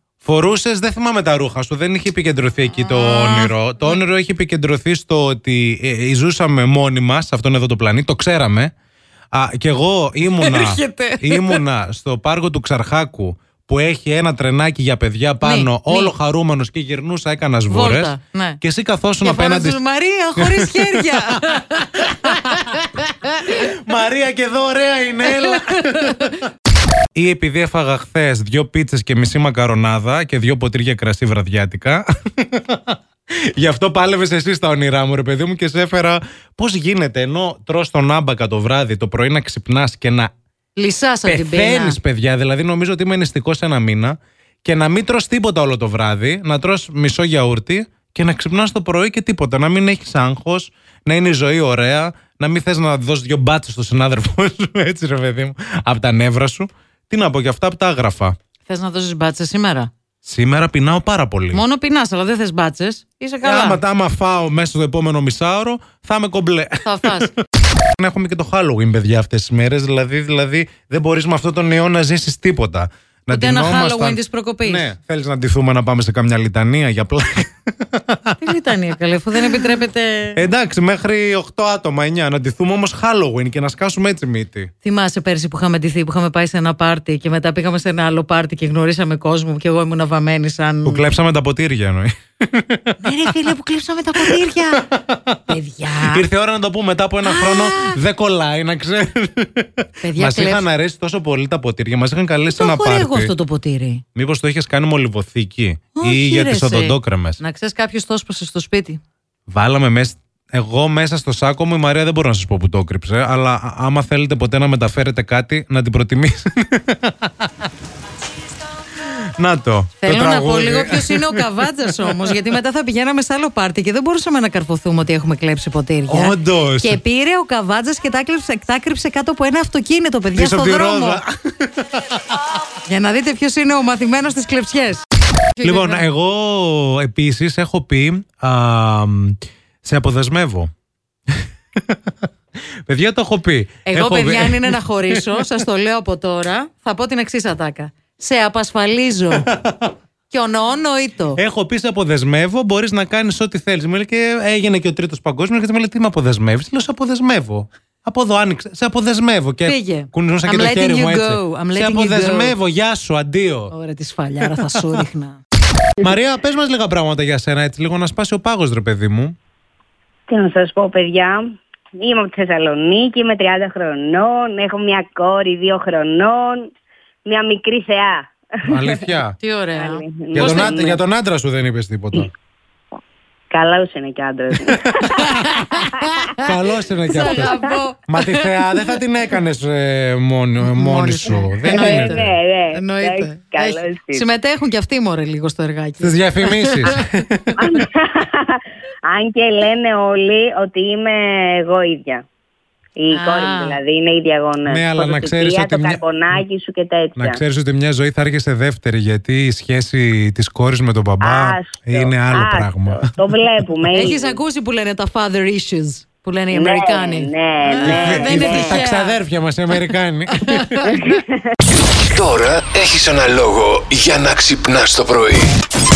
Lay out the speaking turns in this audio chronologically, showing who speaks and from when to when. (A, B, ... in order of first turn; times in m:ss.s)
0:00.2-0:08.7 A
0:02.7-0:04.0 B
0:09.3-0:19.8 A
0:10.3-0:11.6 B
0:15.4-0:16.1 B
0:17.7-0:18.6 B
0:19.2-0:23.6 B
0:20.4-0:21.4 A
0:22.0-0:22.6 A
0:23.4-0:26.4 A
0:25.2-0:26.4 B
0:27.1-0:33.0 A
0:33.5-0:40.3 A
0:40.8-0:42.0 B
0:41.2-0:58.4 A
0:58.7-0:59.9 B
1:00.2-1:01.6 A
1:01.5-1:03.8 B
1:03.4-1:18.4 A
1:06.8-1:07.3 B
1:13.3-1:14.9 B
1:18.4-1:20.4 B
1:20.3-1:24.7 A
1:24.8-1:31.1 B
1:30.8-1:33.3 A
1:33.0-1:34.8 B
1:34.2-1:43.3 A
1:35.5-1:36.2 B
1:37.2-1:38.0 B
1:40.0-1:40.7 B
1:42.6-1:44.0 B
1:44.1-1:47.4 A
1:46.0-1:49.0 B
1:49.5-1:57.7 A
1:59.0-2:02.4 A
2:00.0-2:11.2 B
2:06.1-2:07.0 A
2:10.3-2:12.3 A
2:12.8-2:15.0 B
2:15.6-2:16.0 B
2:15.6-2:20.7 A
2:21.4-2:22.3 A
2:22.8-2:25.5 A
2:23.8-2:29.5 B
2:29.3-2:29.9 A
2:30.3-2:31.4 B
2:31.4-2:43.7 A
2:39.6-2:42.6 B
2:43.7-2:45.4 B
2:44.4-2:45.0 A
2:46.0-2:49.4 A
2:50.3-2:56.7 C
2:57.2-2:59.0 C
2:58.7-2:59.3 A
2:59.4-3:00.7 B
2:59.7-3:01.0 C
3:00.3-3:02.3 A
3:03.5-3:05.9 C
3:05.2-3:06.5 B
3:05.2-3:05.7 A
3:06.4-3:12.3 A
3:07.0-3:08.3 B
3:07.1-3:07.6 C
3:10.6-3:17.0 B
3:11.3-3:14.3 C
3:16.0-3:17.8 A
3:17.6-3:22.2 C
3:23.0-3:27.4 C
3:23.1-3:23.8 B
3:24.6-3:26.4 A
3:27.2-3:33.1 A
3:31.2-3:34.4 C
3:33.9-3:39.2 B
3:36.5-3:38.8 C
3:37.8-3:40.9 A
3:39.7-3:41.2 B
3:40.8-3:41.4 C
3:42.0-3:45.6 D